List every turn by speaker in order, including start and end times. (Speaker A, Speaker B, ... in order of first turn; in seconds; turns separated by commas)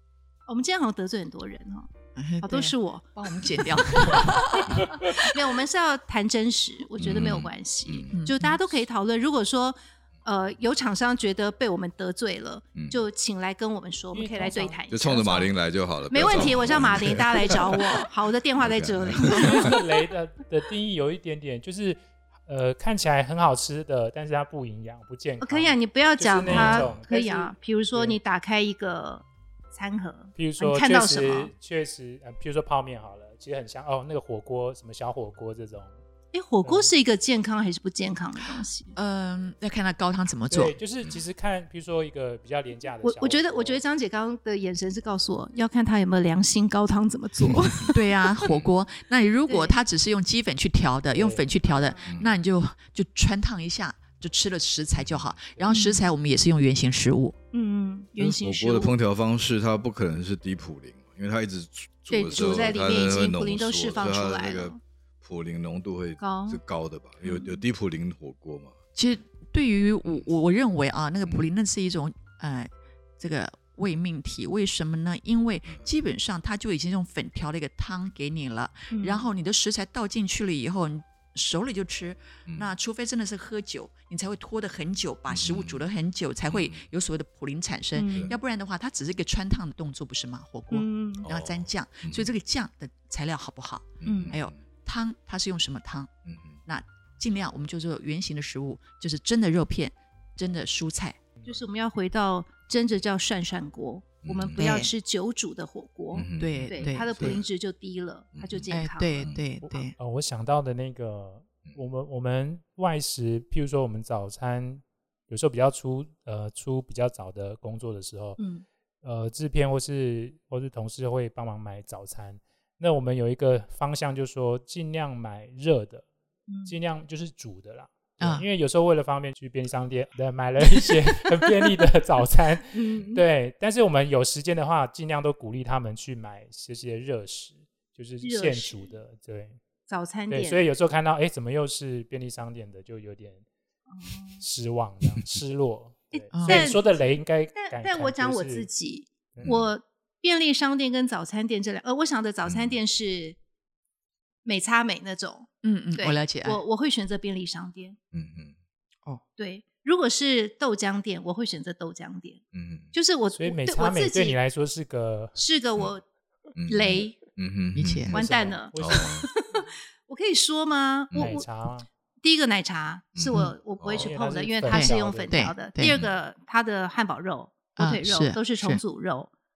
Speaker A: 0.5-1.9, Speaker B: 2.2-5.2, Speaker A: 2.4-15.5, Speaker C: 4.7-4.9, Speaker C: 7.0-8.2, Speaker B: 8.1-8.6, Speaker C: 12.7-13.0, Speaker D: 14.1-14.8, Speaker C: 14.9-18.1, Speaker A: 16.1-19.8, Speaker C: 18.6-19.8, Speaker D: 19.2-28.2, Speaker A: 25.4-31.5, Speaker C: 26.4-27.0, Speaker D: 30.4-36.0, Speaker A: 36.3-38.9, Speaker D: 36.6-36.9, Speaker B: 39.0-40.8, Speaker D: 40.5-43.8, Speaker A: 43.0-48.0, Speaker C: 47.5-47.9, Speaker B: 47.9-57.3, Speaker C: 48.4-48.7, Speaker A: 49.5-49.8, Speaker D: 51.1-51.9, Speaker A: 51.6-52.2, Speaker C: 52.0-52.3, Speaker C: 55.0-55.7, Speaker A: 55.7-56.0, Speaker A: 57.5-58.9, Speaker C: 58.2-68.7, Speaker A: 62.1-64.8, Speaker A: 66.2-66.6, Speaker A: 67.2-67.6, Speaker B: 68.9-96.1, Speaker A: 78.9-79.2, Speaker C: 85.3-85.8, Speaker C: 86.5-86.8, Speaker A: 87.9-88.3, Speaker A: 90.7-91.2, Speaker C: 91.2-92.3, Speaker C: 94.0-94.6, Speaker A: 94.0-94.3, Speaker C: 96.2-96.6, Speaker B: 96.7-101.2, Speaker A: 101.5-109.3, Speaker C: 104.2-104.8, Speaker B: 104.6-104.9, Speaker C: 106.1-107.4, Speaker B: 106.4-107.4, Speaker C: 108.3-108.7, Speaker B: 108.7-109.9, Speaker D: 109.6-118.4, Speaker A: 118.4-118.6, Speaker D: 119.0-126.0, Speaker A: 126.5-126.7, Speaker D: 126.7-139.6, Speaker B: 128.2-128.4, Speaker A: 130.7-130.9, Speaker A: 132.7-133.2, Speaker A: 138.2-138.9, Speaker A: 139.9-140.6, Speaker D: 140.3-143.4, Speaker A: 143.9-144.4, Speaker D: 144.4-148.7, Speaker A: 146.1-146.8, Speaker B: 146.3-146.7, Speaker A: 147.5-153.4, Speaker D: 149.3-149.6, Speaker C: 149.4-149.7, Speaker C: 152.4-152.8, Speaker A: 154.4-158.0, Speaker B: 155.6-156.6, Speaker C: 158.1-158.5, Speaker A: 159.4-164.3, Speaker C: 162.5-162.9, Speaker D: 163.3-165.3, Speaker A: 165.3-166.0, Speaker C: 166.5-168.2, Speaker A: 166.7-167.2, Speaker B: 167.8-168.1, Speaker D: 168.1-169.3, Speaker A: 168.1-171.5, Speaker C: 168.7-169.3, Speaker D: 171.1-171.9, Speaker A: 172.2-179.3, Speaker C: 173.2-174.1, Speaker D: 174.0-175.5, Speaker B: 174.7-175.9, Speaker B: 177.8-178.8